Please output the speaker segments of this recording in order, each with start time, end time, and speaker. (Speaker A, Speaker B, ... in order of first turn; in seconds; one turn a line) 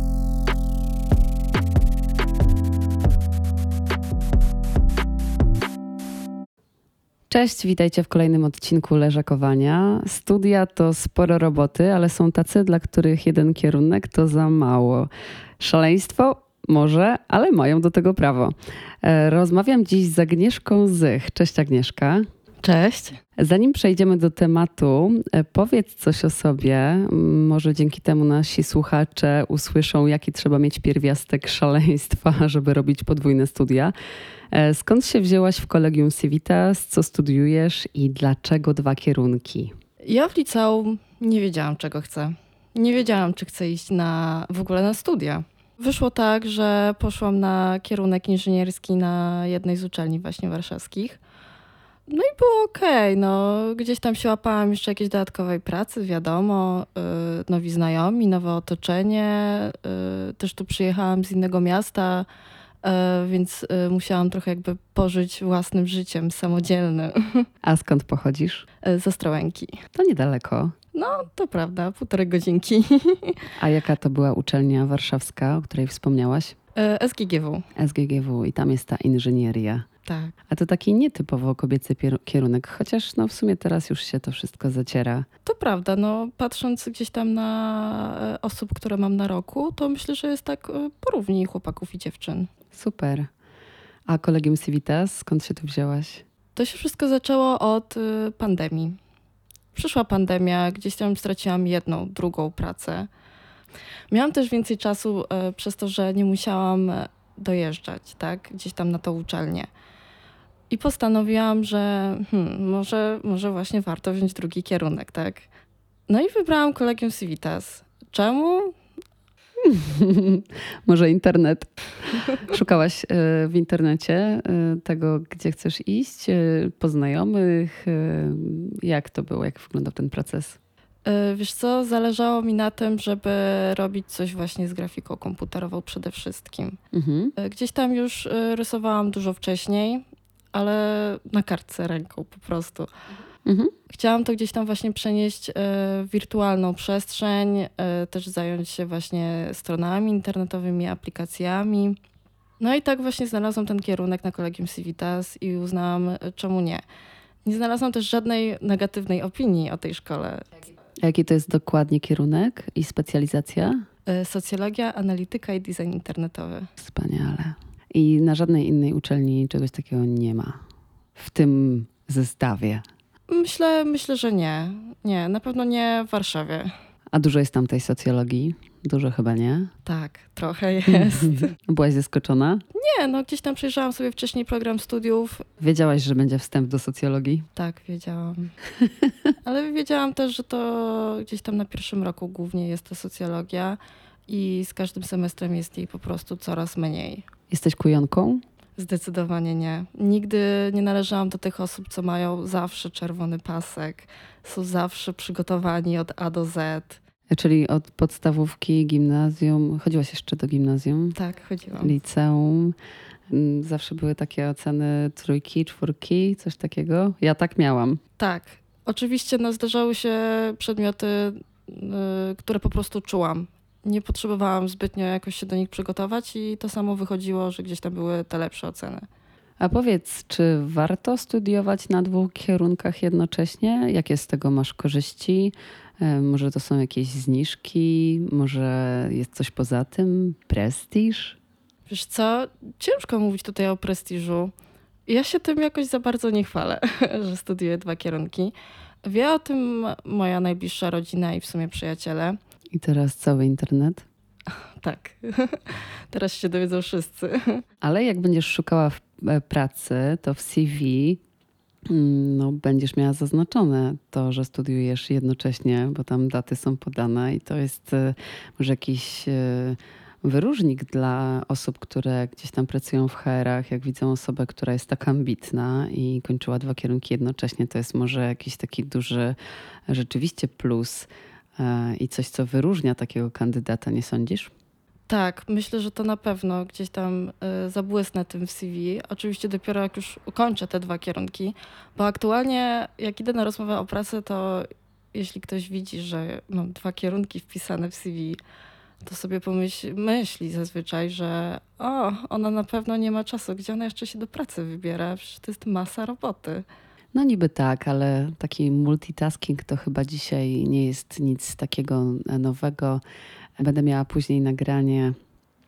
Speaker A: 7.3-22.3
Speaker B: 22.6-23.2
Speaker A: 23.4-33.9
Speaker A: 34.5-39.7
Speaker B: 40.0-51.2
Speaker B: 52.1-62.3
Speaker B: 62.8-67.5
Speaker A: 67.6-68.7
Speaker B: 68.8-69.8
Speaker A: 69.9-70.7
Speaker B: 70.9-73.5
Speaker A: 73.6-76.5
Speaker B: 76.7-77.7
Speaker A: 77.8-79.9
Speaker B: 80.0-80.3
Speaker A: 80.5-85.3
Speaker B: 85.4-92.5
Speaker A: 92.7-93.3
Speaker A: 94.1-96.2
Speaker B: 96.5-99.0
Speaker B: 99.7-103.1
Speaker B: 104.1-109.7
Speaker B: 110.7-115.5
Speaker B: 116.1-118.8
Speaker A: 119.6-130.6
Speaker B: 131.0-136.8
Speaker A: 136.9-137.3
Speaker B: 137.4-142.9
Speaker A: 143.4-143.7
Speaker B: 143.9-152.0
Speaker B: 152.6-156.8
Speaker B: 157.4-160.5
Speaker A: 161.0-163.8
Speaker B: 164.1-166.7
Speaker A: 166.8-170.6
Speaker A: 171.2-172.8
Speaker B: 173.3-176.7
Speaker A: 177.1-179.7
Speaker B: 179.8-181.5
Speaker A: 180.9-182.6
Speaker B: 182.7-185.4
Speaker A: 185.6-187.5
Speaker B: 187.6-188.5
Speaker A: 188.8-189.1
Speaker B: 189.4-197.2
Speaker A: 197.5-198.4
Speaker B: 198.8-207.0
Speaker A: 207.3-211.2
Speaker B: 211.2-211.9
Speaker A: 211.8-212.8
Speaker A: 213.3-218.0
Speaker B: 218.2-229.1
Speaker A: 229.6-241.4
Speaker B: 241.9-244.5
Speaker B: 245.1-252.4
Speaker A: 252.7-254.0
Speaker B: 254.8-257.6
Speaker A: 257.8-261.2
Speaker A: 261.9-279.4
Speaker A: 279.9-284.5
Speaker B: 285.1-298.4
Speaker B: 299.0-306.6
Speaker A: 307.1-313.0
Speaker A: 313.6-315.2